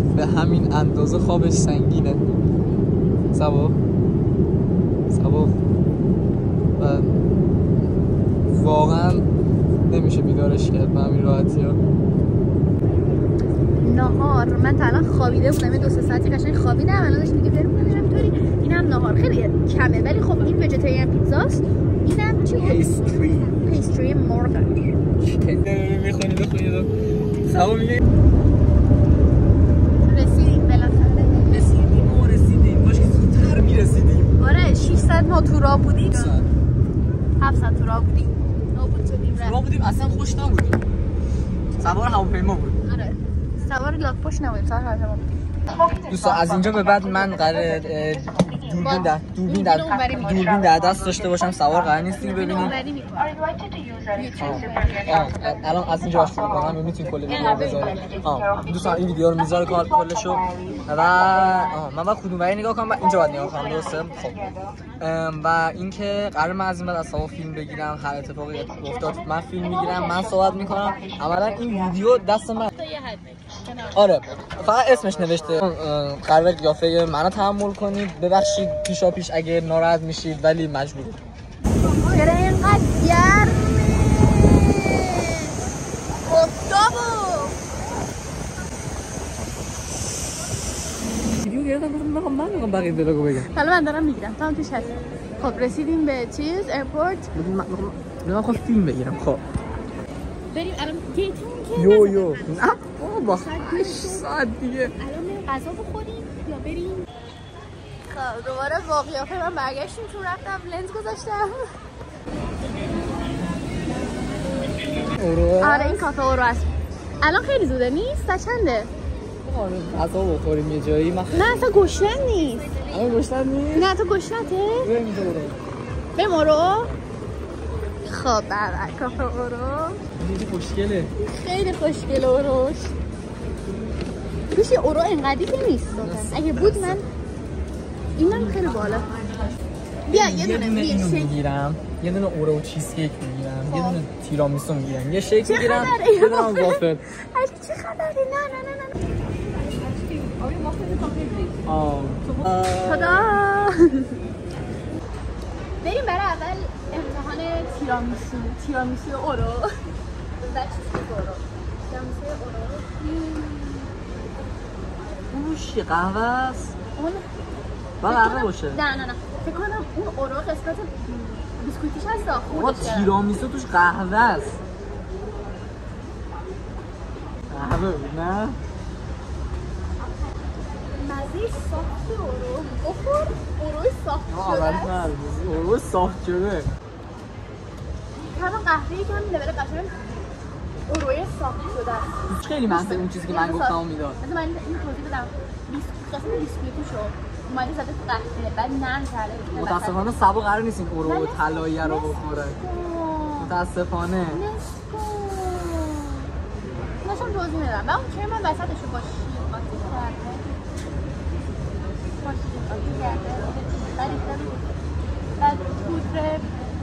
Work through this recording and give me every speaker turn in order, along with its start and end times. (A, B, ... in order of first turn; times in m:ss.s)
0:00.1-0:02.2 A
0:03.3-0:03.8 A
0:05.1-0:05.5 A
0:06.8-0:07.2 A
0:08.5-0:09.2 A
0:09.9-0:11.8 A
0:13.8-0:22.9 B
0:22.6-0:23.6 A
0:23.5-0:24.7 B
0:25.2-0:28.0 A
0:30.1-0:31.6 B
0:31.5-0:34.3 A
0:34.4-0:36.3 B
0:36.1-0:36.4 A
0:37.4-0:39.6 B
0:39.3-0:40.8 A
0:41.8-0:42.8 A
0:42.8-0:45.3 B
0:45.8-0:52.8 A
0:48.8-0:51.4 B
0:52.1-0:53.4 B
0:54.1-0:55.2 B
0:54.4-1:04.4 A
1:05.0-1:12.7 A
1:12.8-1:13.9 B
1:13.9-1:21.2 A
1:22.0-1:25.5 B
1:26.2-1:27.6 B
1:31.4-1:33.5 A
1:33.5-1:37.3 B
1:37.3-1:39.4 A
1:40.5-1:44.3 B
1:41.7-1:44.9 A
1:45.0-1:47.1 B
1:48.1-1:51.6 B
1:55.2-1:56.0 A
1:55.6-1:56.7 B
1:57.2-1:58.9 B
1:59.4-2:01.6 A
2:01.3-2:02.8 B
2:02.9-2:03.9 A
2:03.7-2:04.9 B
2:04.8-2:05.6 A
2:06.2-2:06.9 B
2:08.0-2:10.0 B
2:10.2-2:11.1 A
2:11.2-2:12.9 B
2:14.5-2:17.0 B
2:16.0-2:17.0 A
2:18.2-2:19.1 B
2:20.1-2:21.3 B
2:20.1-2:27.0 A
2:23.7-2:24.0 B
2:25.4-2:29.0 B
2:31.6-2:33.3 A
2:32.8-2:34.1 B
2:35.8-2:39.7 B
2:40.4-2:43.9 B
2:45.3-2:46.7 A
2:47.0-2:47.2 B
2:48.0-2:48.8 A
2:48.0-2:53.1 B
2:52.5-2:54.6 A
2:57.5-2:58.6 A
3:01.0-3:05.1 B
3:04.3-3:06.7 A
3:08.3-3:09.9 B
3:10.9-3:12.1 B
3:12.3-3:14.2 A
3:12.7-3:20.2 B
3:19.5-3:22.6 A
3:21.0-3:23.5 B
3:23.4-3:24.4 A
3:24.3-3:26.2 B
3:27.0-3:30.6 B
3:32.2-3:34.6 B
3:35.4-3:36.4 B